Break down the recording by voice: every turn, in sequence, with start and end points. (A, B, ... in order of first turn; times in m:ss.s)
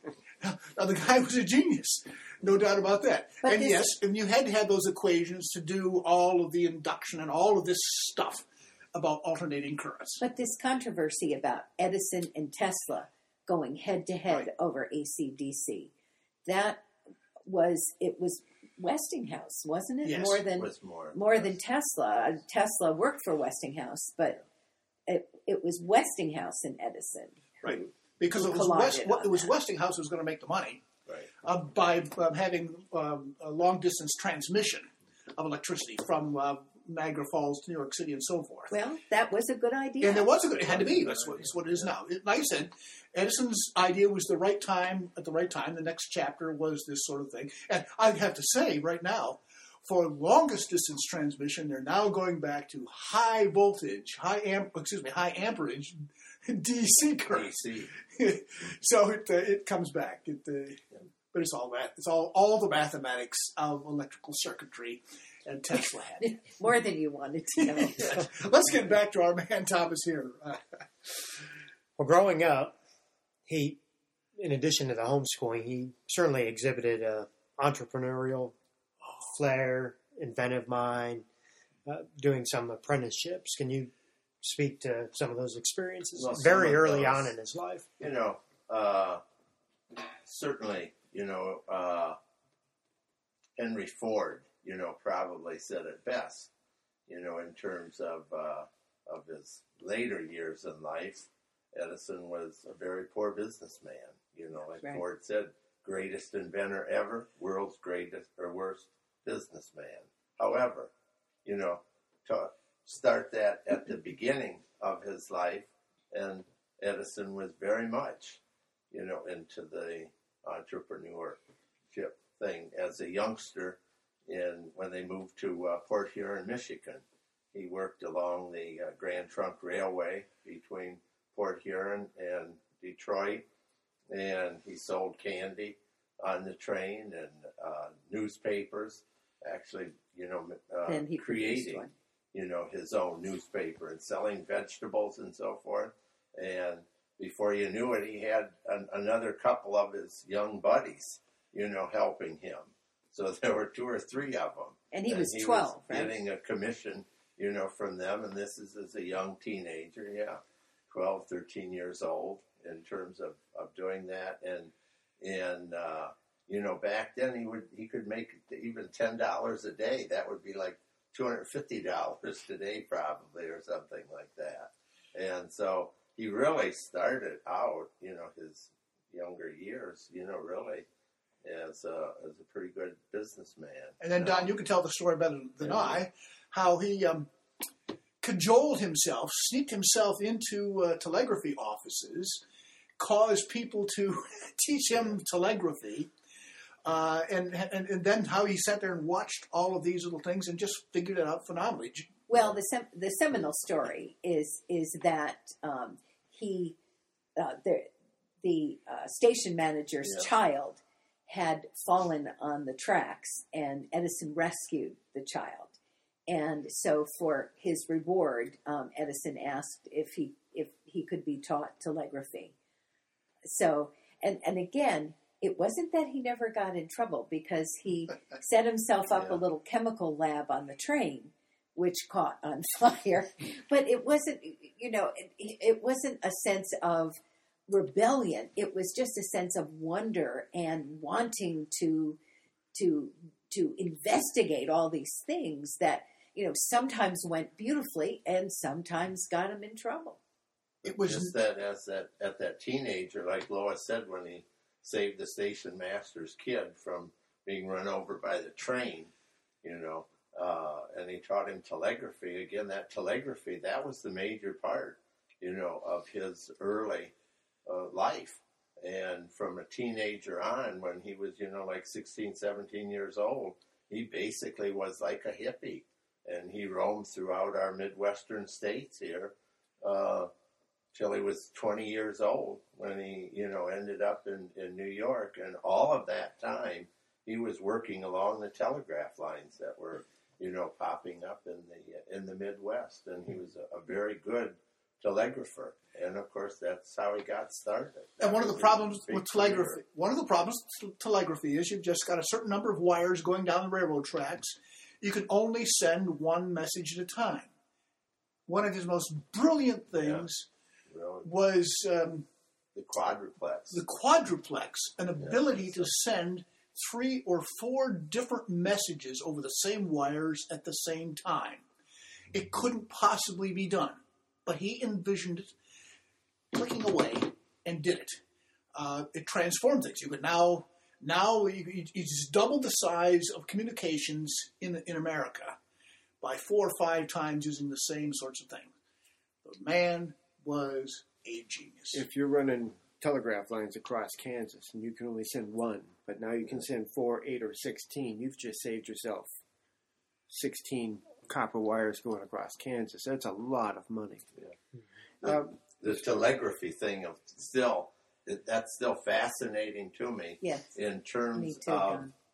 0:00.4-0:10.2 A
0:03.4-0:03.9 B
0:10.2-0:15.9 B
0:16.4-0:16.8 B
0:17.4-0:24.4 B
0:20.0-0:20.4 A
0:20.6-0:21.5 C
0:25.1-0:27.4 B
0:27.6-0:30.8 A
0:28.3-0:29.5 B
0:31.4-0:38.7 A
0:38.7-0:40.3 B
0:40.0-1:06.3 A
0:40.7-0:41.8 C
0:57.3-0:57.9 C
1:06.2-1:08.2 B
1:07.7-1:11.3 A
1:12.0-1:12.8 D
1:13.4-1:13.8 D
1:14.4-1:18.5 D
1:19.2-1:21.2 D
1:21.8-1:27.9 D
1:26.2-1:27.3 C
1:28.0-1:29.2 C
1:30.2-1:32.2 C
1:33.6-1:36.5 C
1:37.1-1:50.9 C
1:51.4-2:01.4 C
2:01.9-2:13.4 C
2:14.1-3:00.8 C
2:20.9-2:21.9 B
2:34.9-2:36.2 B
3:01.4-3:04.6 C
3:04.0-3:07.3 A
3:05.6-3:06.0 C
3:08.2-3:12.4 A
3:13.0-3:16.1 A
3:16.8-3:22.1 A
3:22.3-3:26.8 B
3:27.4-3:27.9 B
3:28.4-3:42.5 B
3:43.4-3:57.2 B
3:57.7-4:02.2 B
4:02.7-4:10.2 B
4:10.8-4:19.1 C
4:10.8-4:11.3 A
4:19.6-4:27.1 C
4:27.6-4:40.3 C
4:40.9-4:59.8 C
4:58.2-5:07.5 A
5:08.5-5:10.5 A
5:10.0-5:10.3 C
5:10.9-5:11.3 C
5:11.2-5:12.2 A
5:12.7-5:13.8 C
5:13.7-5:21.6 A
5:15.2-5:15.9 C
5:22.3-5:25.5 A
5:26.5-5:28.2 A
5:28.7-5:35.6 A
5:36.2-5:38.7 A
5:39.4-5:42.0 A
5:41.9-5:49.3 E
5:50.3-5:54.2 E
5:55.2-5:55.5 E
5:55.2-6:02.1 C
6:00.4-6:00.7 B
6:01.3-6:02.1 B